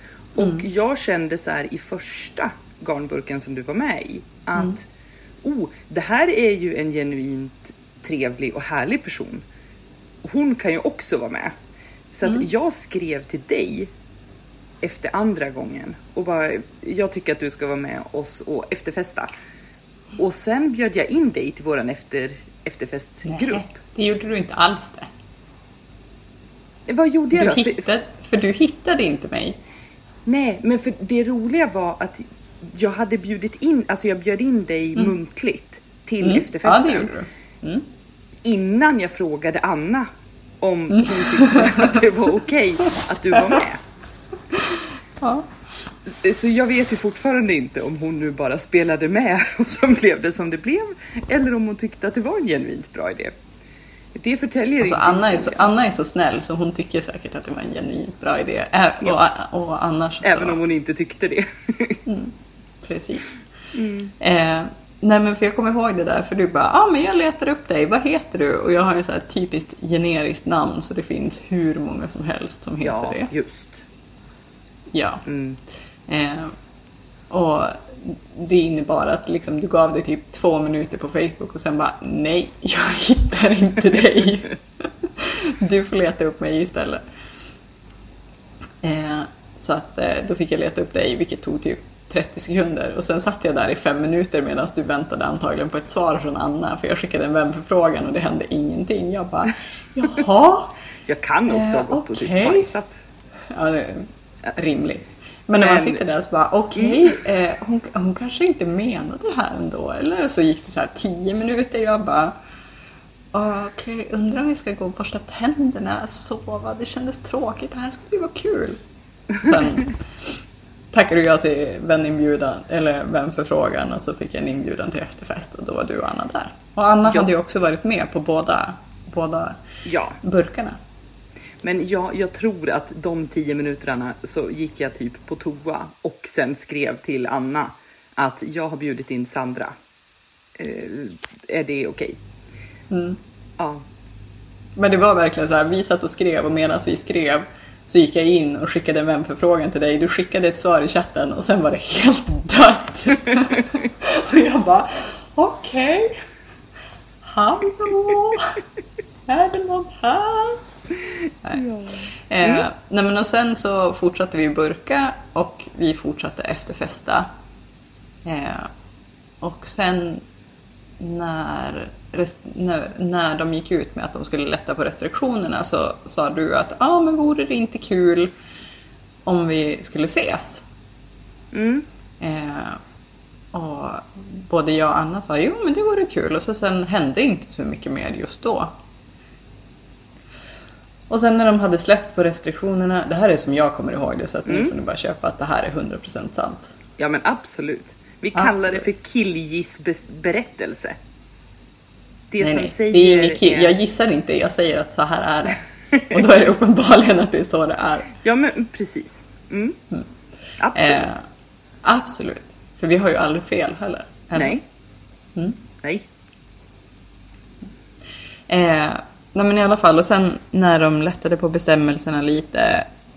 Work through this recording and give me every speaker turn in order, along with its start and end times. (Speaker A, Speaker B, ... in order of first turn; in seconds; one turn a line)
Speaker A: 0.3-4.9
Speaker B: 0.4-0.7
Speaker A: 5.4-9.4
Speaker A: 10.2-11.5
Speaker A: 12.1-13.9
Speaker A: 14.8-19.3
Speaker A: 20.2-23.8
Speaker B: 23.2-25.1
Speaker A: 26.9-27.9
Speaker B: 27.3-29.6
Speaker A: 30.2-37.1
Speaker B: 36.2-37.9
Speaker A: 38.4-40.1
Speaker A: 40.6-43.8
Speaker B: 40.9-42.0
Speaker B: 43.3-43.6
Speaker B: 44.5-45.5
Speaker A: 46.1-53.3
Speaker A: 54.1-55.7
Speaker B: 54.8-60.6
Speaker A: 60.2-62.0
Speaker B: 62.0-63.3
Speaker A: 63.7-64.1
Speaker B: 64.2-73.3
Speaker A: 72.8-73.8
Speaker B: 74.9-75.2
Speaker A: 75.2-75.6
Speaker B: 76.1-76.5
Speaker B: 77.3-87.0
Speaker B: 88.8-100.7
Speaker A: 101.1-103.0
Speaker B: 101.5-102.7
Speaker B: 103.5-112.3
Speaker A: 105.6-106.0
Speaker A: 106.8-107.2
Speaker B: 113.3-118.8
Speaker B: 119.3-129.6
Speaker A: 129.8-130.2
Speaker B: 130.2-130.8
Speaker A: 131.6-139.7
Speaker A: 140.6-142.2
Speaker B: 142.9-143.2
Speaker A: 143.6-143.8
Speaker B: 144.8-156.2
Speaker B: 157.2-158.6
Speaker B: 159.3-160.6
Speaker A: 161.6-162.6
Speaker B: 162.3-167.3
Speaker B: 168.2-168.7
Speaker B: 169.4-170.2
Speaker B: 171.0-178.3
Speaker B: 179.2-180.6
Speaker A: 181.5-181.8
Speaker B: 182.2-182.8
Speaker B: 183.5-188.7
Speaker B: 191.1-196.7
Speaker A: 194.5-194.7
Speaker A: 197.0-201.0
Speaker B: 198.3-198.8
Speaker A: 202.3-203.7
Speaker B: 202.4-208.1
Speaker A: 208.2-209.8
Speaker A: 210.6-211.1
Speaker B: 210.7-211.2
Speaker B: 211.8-214.6
Speaker A: 214.3-214.6
Speaker B: 215.3-215.6
Speaker B: 218.5-222.9